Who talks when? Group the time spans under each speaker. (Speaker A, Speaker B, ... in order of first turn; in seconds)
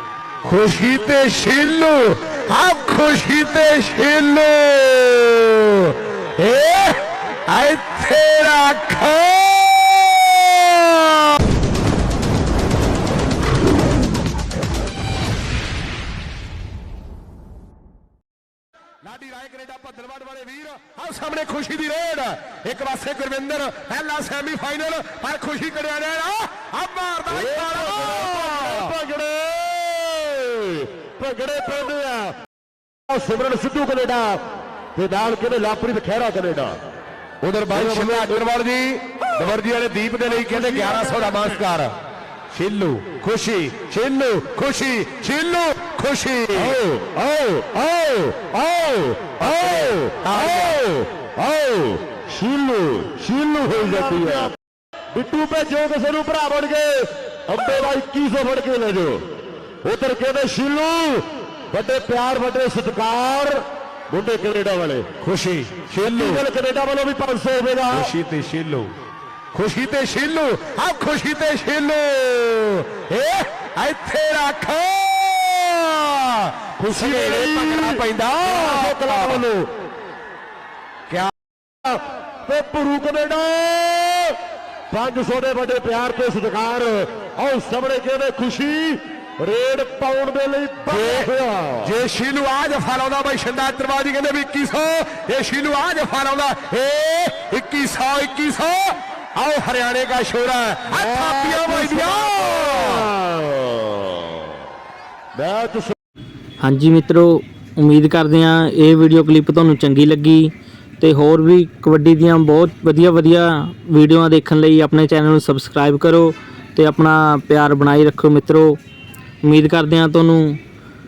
Speaker A: 0.4-11.3, 19.0-28.9, 37.4-41.9, 42.5-46.8, 49.4-50.8, 53.9-54.4, 65.2-66.4, 67.9-68.9, 69.5-79.4, 90.8-103.1
Speaker B: 27.3-32.3, 33.1-34.4, 34.9-36.8, 37.7-38.4, 40.4-41.3, 46.5-54.5, 55.1-59.2, 59.8-65.1, 66.0-68.1, 76.8-79.7, 81.8-84.4, 84.9-91.9, 101.1-104.4, 105.3-105.9
Speaker C: 106.6-118.8, 119.4-120.6